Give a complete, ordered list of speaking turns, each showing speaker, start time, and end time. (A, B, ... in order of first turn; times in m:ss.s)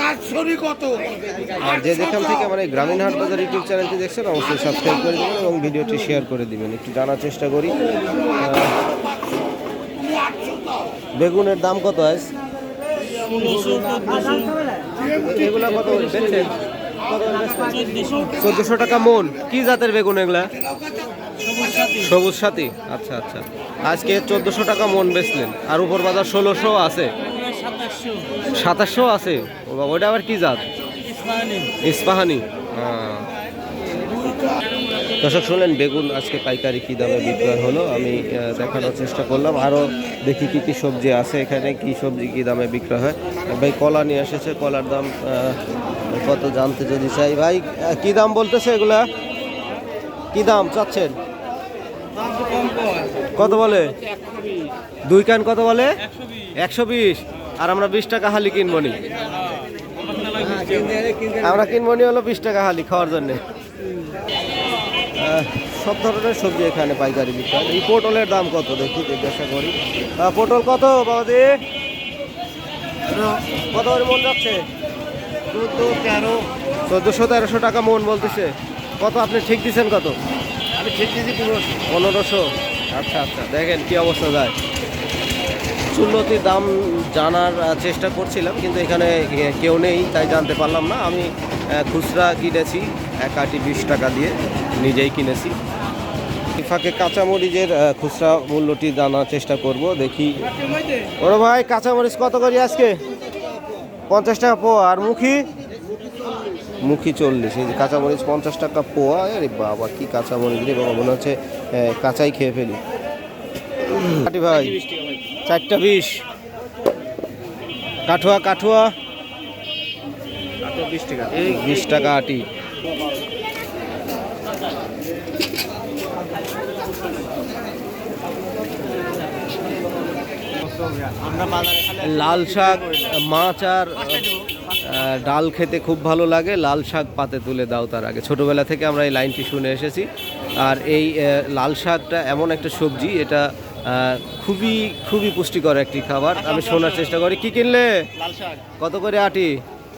0:01.6-0:07.8 A
0:08.4-0:08.8 A
0:11.2-0:12.3 A
0:13.3-0:14.4 B
0:15.1-0:20.5 A
0:21.8-0:27.1 A
0:28.5-0:30.6 A
0:31.8-0:33.3 A
0:35.2-0:49.1 A
0:50.3-0:51.1 A
0:53.4-0:53.9 A
0:55.0-0:55.9 A
0:56.6-0:59.0 A
1:00.3-1:01.0 B
1:00.4-1:03.4 A
1:05.2-1:11.6 A
1:13.2-1:14.6 A
1:15.5-1:16.3 A
1:15.8-1:16.4 B
1:16.9-1:20.1 A
1:20.8-1:21.7 B
1:21.6-1:24.5 A
1:25.9-1:35.6 A
1:36.5-1:40.4 A
1:41.2-1:43.0 A
1:44.1-1:45.4 A
1:46.8-1:52.8 A
1:53.9-1:54.8 A
1:55.4-1:56.2 A
1:58.1-1:58.9 A
2:00.7-2:01.2 B
2:00.8-2:02.4 A
2:10.8-2:13.0 B
2:12.0-2:14.3 A
2:14.8-2:20.1 A
2:20.6-2:28.1 A
2:26.5-2:27.0 B
2:28.2-2:28.6 B
2:28.8-2:29.6 A